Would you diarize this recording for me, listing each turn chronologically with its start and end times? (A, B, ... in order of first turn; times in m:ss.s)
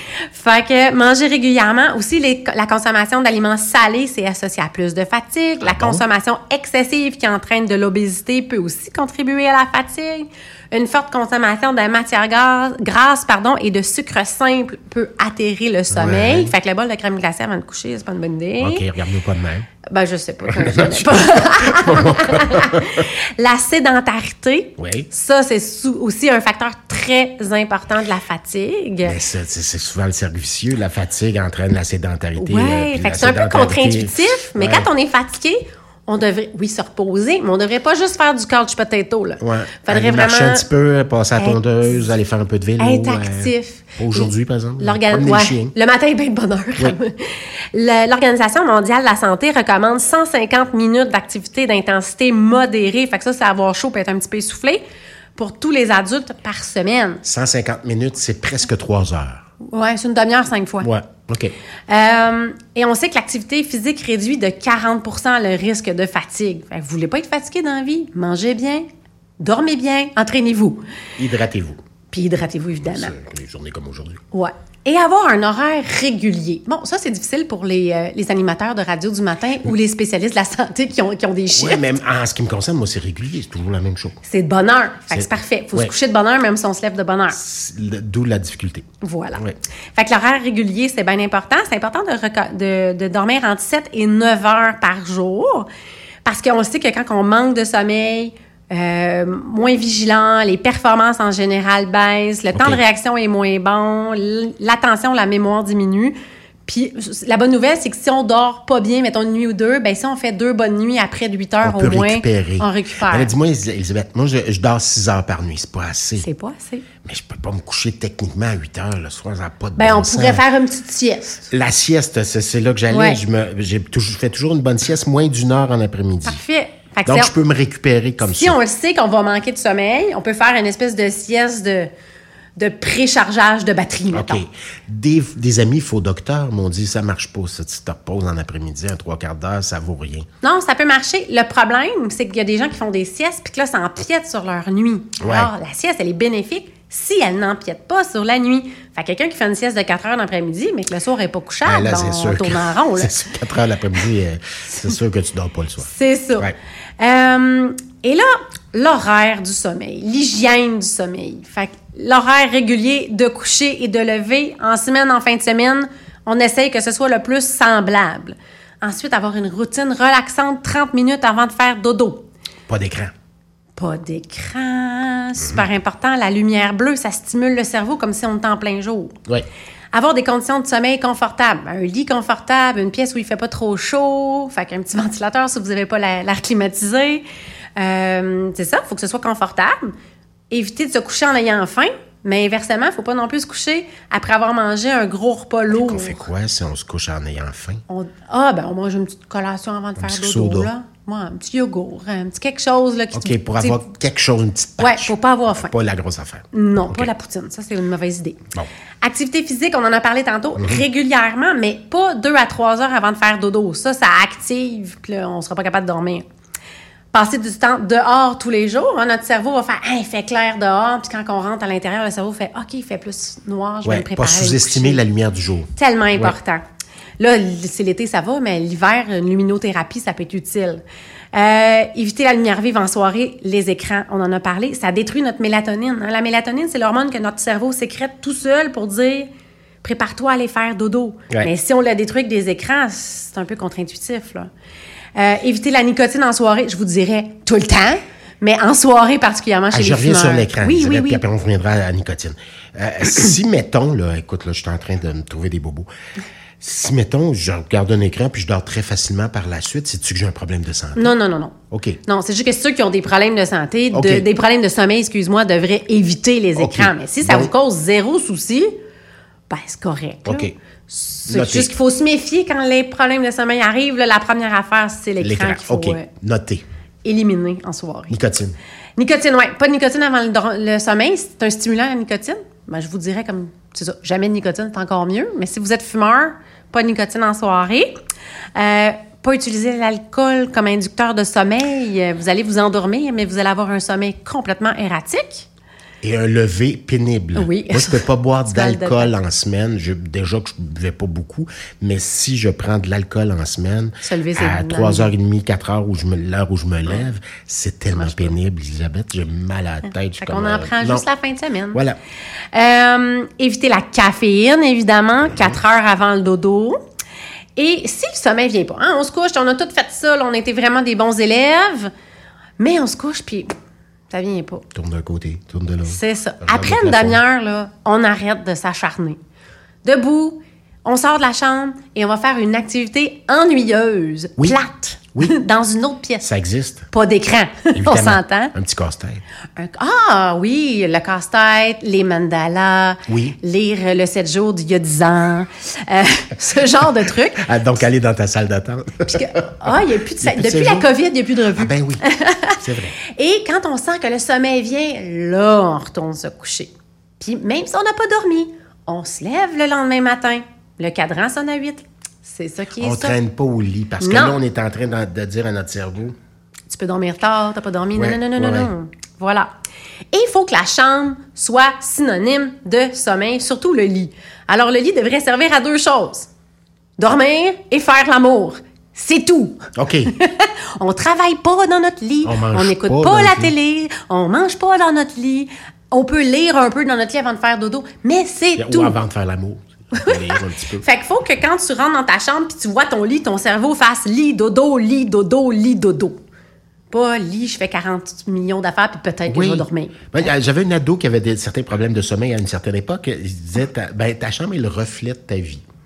0:00.3-0:18.9 A
0:05.6-0:06.0 B
0:15.9-0:16.5 B
0:18.6-0:19.7 B
0:19.9-0:29.2 A
0:20.5-0:23.1 B
0:24.8-0:25.1 B
0:29.0-0:34.9 B
0:32.4-0:40.7 A
0:39.4-0:45.7 B
0:41.4-0:42.1 A
0:42.8-0:54.8 A
0:55.4-0:57.2 A
0:57.2-0:59.5 B
0:59.7-1:00.9 A
1:00.8-1:01.5 B
1:01.9-1:08.8 A
1:09.4-1:10.8 A
1:11.2-1:11.8 B
1:12.1-1:13.2 A
1:12.8-1:14.2 B
1:14.3-1:21.9 A
1:21.5-1:24.2 B
1:24.2-1:27.4 A
1:25.1-1:25.9 B
1:27.3-1:29.6 B
1:29.0-1:29.4 A
1:30.0-1:35.7 A
1:36.2-1:53.3 A
1:42.5-1:42.8 B
1:51.6-1:56.3 B
1:56.2-1:56.8 A
1:57.0-2:00.4 B
1:59.8-2:01.5 A
2:01.5-2:06.4 B
2:02.9-2:03.2 A
2:06.2-2:07.3 A
2:07.1-2:08.6 B
2:08.2-2:11.9 A
2:12.6-2:14.4 A
2:14.1-2:20.2 B
2:20.4-2:33.2 A
2:25.2-2:25.5 B
2:31.6-2:36.6 B
2:35.8-2:52.2 A
2:52.7-2:53.1 B
2:53.8-2:59.2 A
2:55.4-2:55.6 B
2:59.9-3:07.2 A
3:07.8-3:09.9 A
3:10.5-3:16.2 A
3:15.7-3:17.8 B
3:17.9-3:23.8 A
3:20.0-3:20.7 B
3:23.1-3:27.1 B
3:24.8-3:25.7 A
3:26.5-3:28.5 A
3:29.0-3:36.2 A
3:30.6-3:30.8 B
3:37.1-3:45.0 A
3:43.8-3:46.4 B
3:45.8-3:46.6 A
3:47.2-3:59.3 A
3:59.8-4:04.5 A
4:05.2-4:11.2 A
4:09.7-4:15.9 B
4:16.6-4:21.1 B
4:21.0-4:28.7 A
4:21.7-4:22.0 B
4:23.9-4:24.3 B
4:26.6-4:27.5 B
4:29.5-4:36.1 A
4:30.2-4:30.5 B
4:31.3-4:31.7 B
4:35.2-4:36.6 B
4:37.0-4:38.2 A
4:38.1-4:38.6 B
4:39.0-4:48.0 A
4:48.6-4:55.5 A
4:56.0-5:11.0 B
4:57.4-4:59.1 A
5:04.0-5:05.1 A
5:07.9-5:08.3 A
5:10.2-5:11.8 A
5:11.7-5:12.0 B
5:12.5-5:16.8 A
5:15.2-5:15.6 B
5:17.6-5:21.9 A
5:22.6-5:23.5 A
5:24.1-5:24.6 A
5:24.8-5:27.2 B
5:25.9-5:29.2 A
5:29.8-5:36.2 A
5:36.2-5:36.9 B
5:36.9-5:38.5 A
5:37.7-5:39.2 B
5:39.6-5:47.6 A
5:43.1-5:43.4 B
5:47.4-5:50.9 B
5:49.1-5:52.6 A
5:51.5-5:52.9 B
5:53.1-6:03.2 A
6:02.8-6:06.1 B
6:04.0-6:04.4 A
6:06.7-6:09.5 A
6:08.0-6:08.7 B
6:10.1-6:16.3 A
6:17.0-6:19.6 A
6:19.8-6:20.1 B
6:20.1-6:29.0 A
6:22.2-6:23.5 B
6:28.6-6:30.9 B
6:29.9-6:36.2 A
6:36.9-6:40.1 A
6:39.3-6:45.6 B